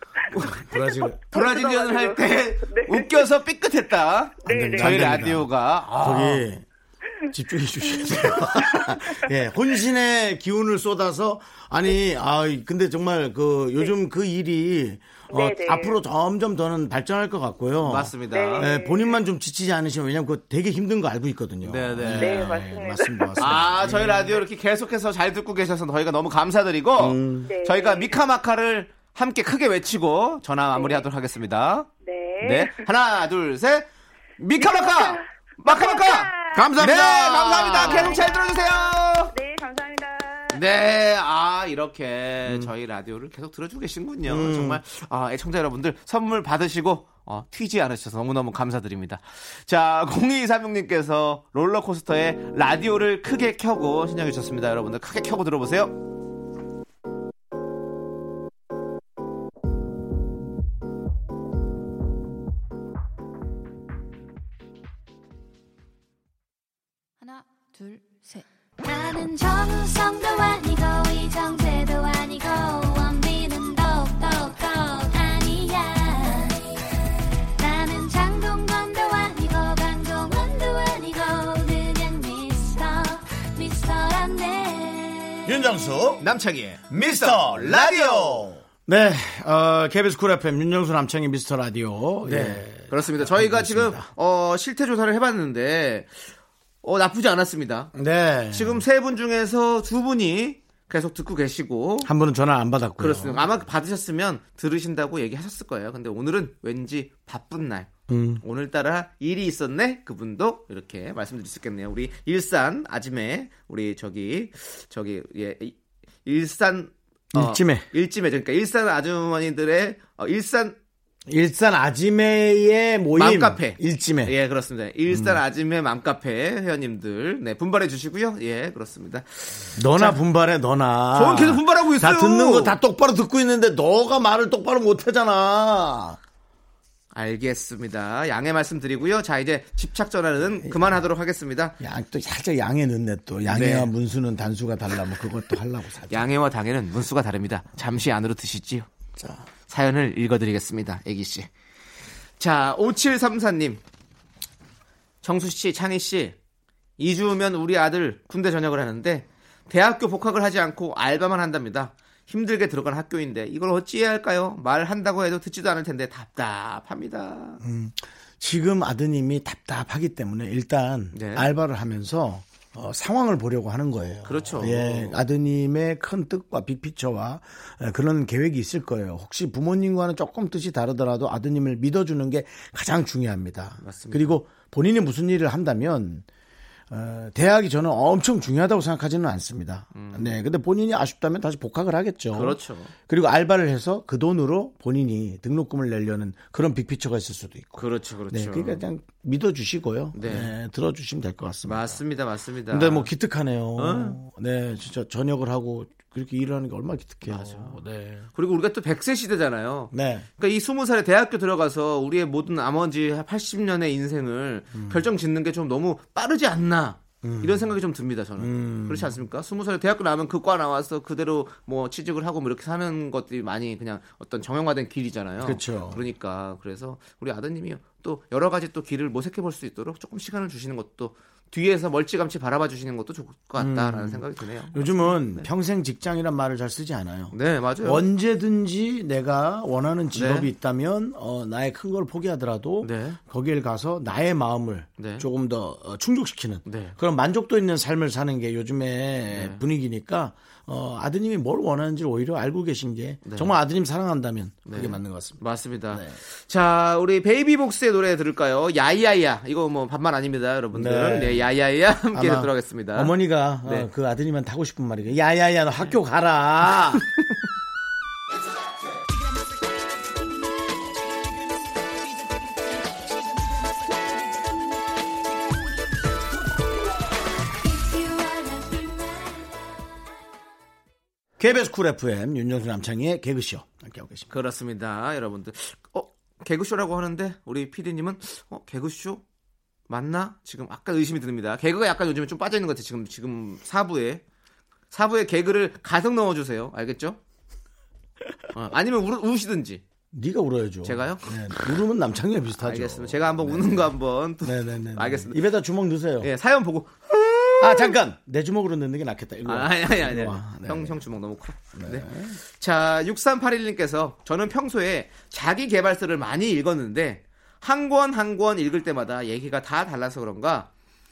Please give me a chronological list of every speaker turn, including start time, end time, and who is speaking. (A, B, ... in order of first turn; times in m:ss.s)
0:00.3-0:00.6 A
0:00.6-0:01.2 B
0:00.8-0:03.3 C
0:01.3-0:06.5 A
0:04.4-0:05.1 C
0:04.4-0:06.6 B
0:07.3-0:24.4 B
0:07.9-0:08.9 C
0:15.3-0:16.0 C
0:17.8-0:18.7 A
0:18.3-0:19.2 C
0:21.6-0:22.4 A
0:22.1-0:23.5 C
0:23.4-0:31.9 A
0:27.0-0:27.5 B
0:27.4-0:28.2 C
0:30.7-0:31.0 C
0:32.0-0:32.8 C
0:32.4-0:33.9 A
0:34.4-0:39.3 A
0:34.6-0:36.8 C
0:36.5-0:38.2 B
0:37.6-0:40.6 C
0:40.5-0:55.9 A
0:44.3-0:44.8 B
1:08.8-1:16.7 D
1:17.6-1:25.5 D
1:25.4-1:26.3 B
1:26.2-1:28.4 A
1:26.9-1:34.1 B
1:32.2-1:36.1 A
1:36.8-1:37.9 A
1:37.9-1:38.8 B
1:38.5-1:42.1 A
1:42.0-1:43.5 B
1:43.0-1:47.9 A
1:48.1-1:48.4 B
1:48.4-2:00.7 A
1:57.3-1:57.8 B
2:01.3-2:04.3 B
2:03.2-2:10.2 A
2:05.1-2:05.4 B
2:09.7-2:16.2 B
2:11.1-2:12.8 A
2:17.1-2:21.8 A
2:20.4-2:21.0 B
2:21.8-2:26.3 B
2:23.5-2:23.9 A
2:26.1-2:28.9 A
2:29.2-2:29.5 B
2:29.7-2:31.5 A
2:32.4-2:33.8 A
2:35.2-2:36.4 A
2:37.0-2:47.6 A
2:47.6-3:06.2 B
2:51.1-2:51.5 A
2:54.2-2:55.2 A
3:03.8-3:04.4 A
3:06.9-3:22.0 B
3:09.9-3:10.3 A
3:12.3-3:12.9 A
3:17.8-3:18.8 A
3:20.1-3:20.5 A
3:21.6-3:23.1 A
3:22.7-3:28.3 B
3:23.8-3:24.2 A
3:27.2-3:27.8 A
3:28.3-3:55.5 A
3:29.9-3:30.3 B
3:34.7-3:35.0 B
3:37.2-3:37.7 B
3:38.4-3:39.2 B
3:45.4-3:46.0 B
3:53.6-4:16.2 B
3:57.3-3:58.0 A
4:00.1-4:00.5 A
4:02.8-4:03.2 A
4:05.0-4:05.2 A
4:06.6-4:07.0 A
4:09.3-4:09.6 A
4:13.2-4:13.5 A
4:14.6-4:23.1 A
4:20.7-4:21.5 B
4:22.1-4:27.0 B
4:41.4-4:44.3 B
4:44.3-4:49.2 A
4:49.9-4:54.2 A
4:54.9-4:57.2 A
4:58.5-4:59.8 A
5:00.1-5:06.3 B
5:00.8-5:01.2 A
5:02.6-5:05.4 A
5:06.2-5:08.0 A
5:07.6-5:11.0 B
5:09.4-5:20.7 A
5:11.7-5:12.4 B